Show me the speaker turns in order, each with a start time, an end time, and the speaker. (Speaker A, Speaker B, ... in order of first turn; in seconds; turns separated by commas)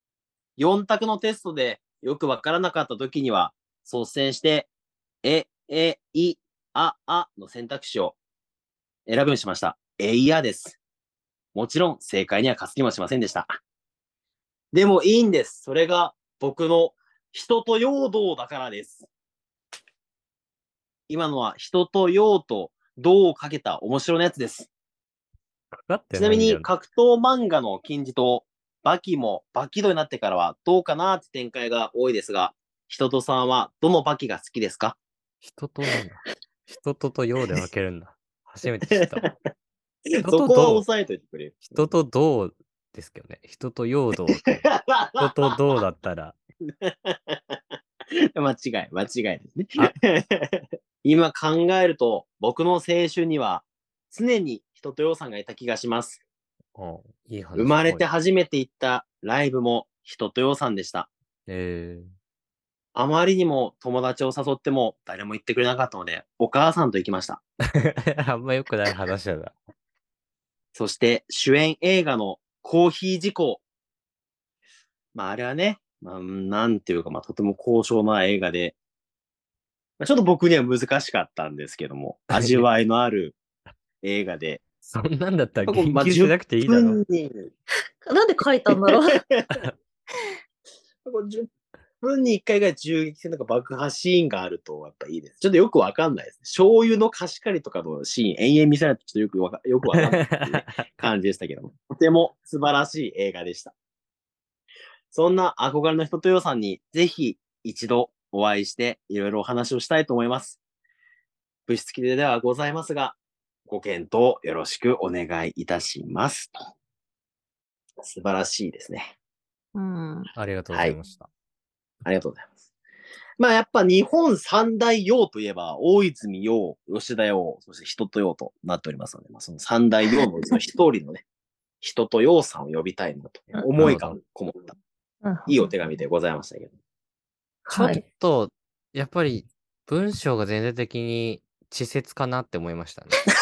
Speaker A: 0.6-4.7, Speaker A: 5.2-8.2, Speaker A: 9.1-10.8, Speaker A: 11.5-13.5, Speaker A: 14.7-19.1, Speaker A: 21.1-24.7, Speaker B: 25.8-26.7, Speaker A: 26.1-35.0, Speaker B: 35.4-39.3, Speaker A: 38.9-39.3, Speaker A: 40.2-41.9, Speaker B: 40.2-40.8, Speaker B: 41.7-46.4, Speaker A: 44.5-45.3, Speaker A: 46.6-47.6, Speaker A: 48.3-56.2, Speaker B: 56.7-58.0, Speaker A: 57.5-61.1, Speaker B: 61.5-62.1, Speaker A: 62.9-67.4, Speaker B: 67.8-69.5, Speaker A: 70.7-73.6, Speaker A: 75.1-78.8, Speaker A: 80.0-83.4, Speaker B: 82.3-82.7, Speaker A: 84.0-84.6, Speaker B: 84.8-87.0, Speaker A: 85.7-87.5, Speaker C: 88.0-89.2, Speaker A: 88.9-89.5, Speaker A: 91.0-91.5, Speaker A: 92.0-103.7, Speaker B: 99.9-100.8, Speaker A: 105.1-110.6, Speaker A: 111.7-116.5, Speaker A: 118.0-119.1, Speaker C: 119.7-120.3, Speaker B: 120.3-121.3, Speaker A: 122.0-122.5, Speaker A: 123.4-131.2, Speaker A: 131.8-134.7, Speaker B: 133.8-134.2, Speaker C: 135.2-135.7, Speaker A: 135.5-136.7, Speaker C: 137.7-138.0, Speaker B: 137.7-143.2